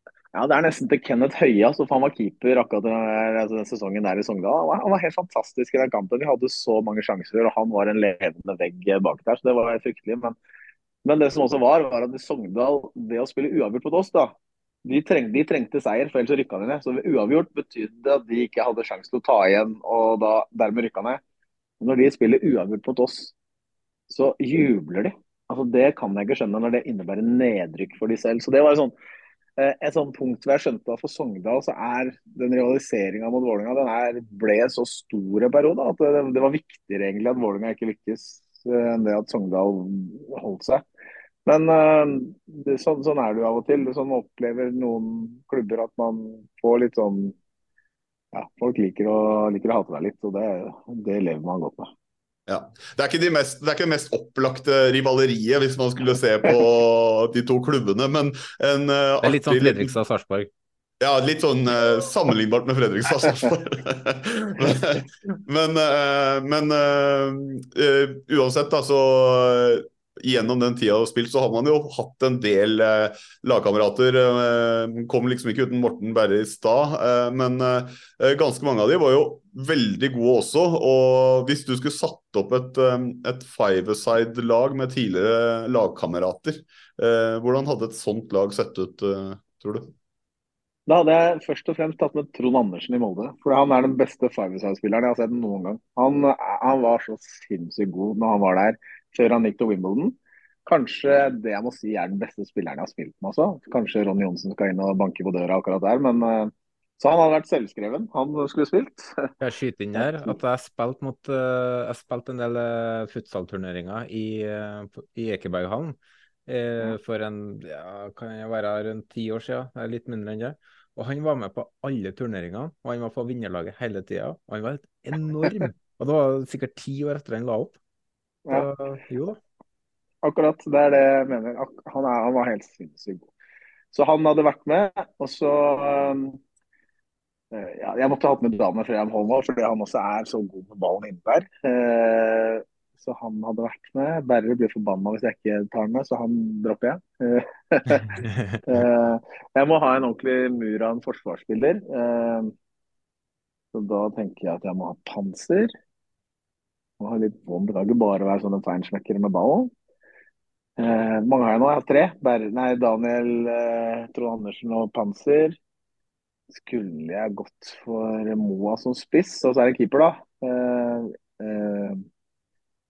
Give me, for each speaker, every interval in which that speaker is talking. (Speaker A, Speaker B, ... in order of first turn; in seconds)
Speaker A: 0.3-10.4, 11.1-21.2, 21.8-23.3, 24.1-28.9, 29.6-40.8, 41.5-47.4, 48.3-51.9, 90.9-100.2, 100.7-109.3, 110.0-110.3, 130.2-133.3, 133.9-136.4, 137.5-152.5, 153.7-155.7, 157.0-159.7, 160.8-165.6, 166.5-172.1
Speaker B: 52.5-60.0, 61.0-89.9
Speaker C: 59.2-60.5, 109.4-116.0, 116.5-127.8, 128.5-129.4, 148.3-148.6